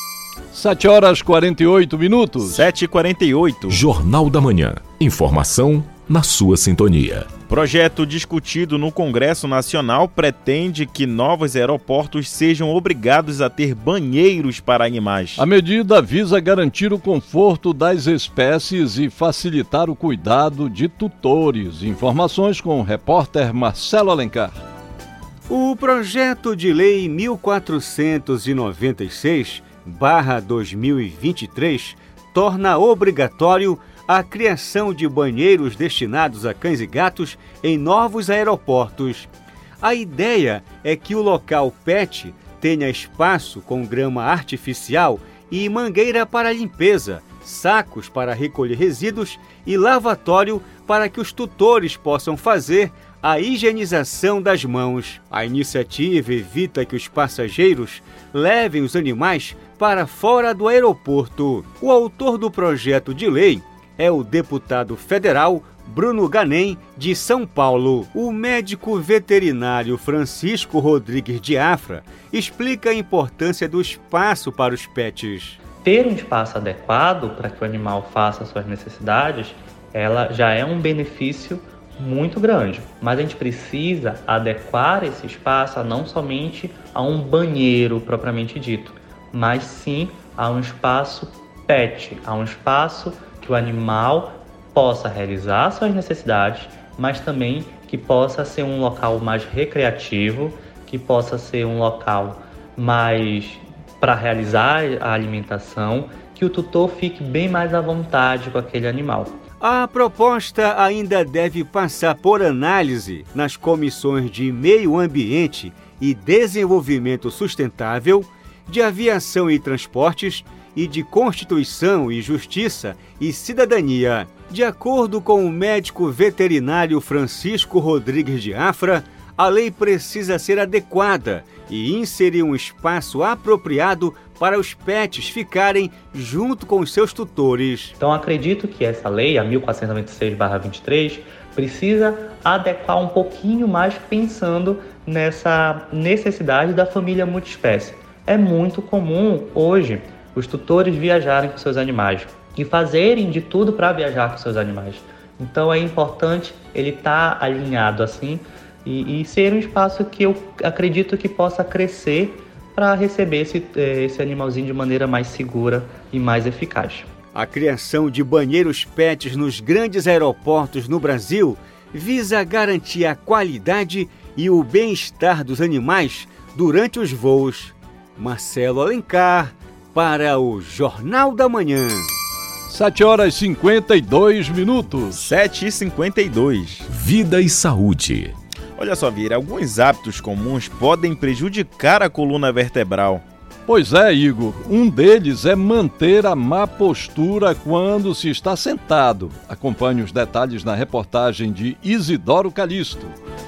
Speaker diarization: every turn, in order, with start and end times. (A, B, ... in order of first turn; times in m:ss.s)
0:00.5-0:02.6 A
0:02.4-0:03.8 B
0:03.7-0:07.3 C
0:07.5-0:15.4 B
0:15.4-0:24.6 A
0:25.5-0:39.3 D
0:39.8-1:15.6 D
1:15.8-1:49.3 E
1:49.6-2:17.9 D
2:18.0-2:47.1 E
2:47.3-3:02.1 D
3:02.7-3:05.2 A
3:05.1-3:06.8 B
3:06.9-3:08.3 C
3:08.8-3:13.2 B
3:13.7-3:23.1 A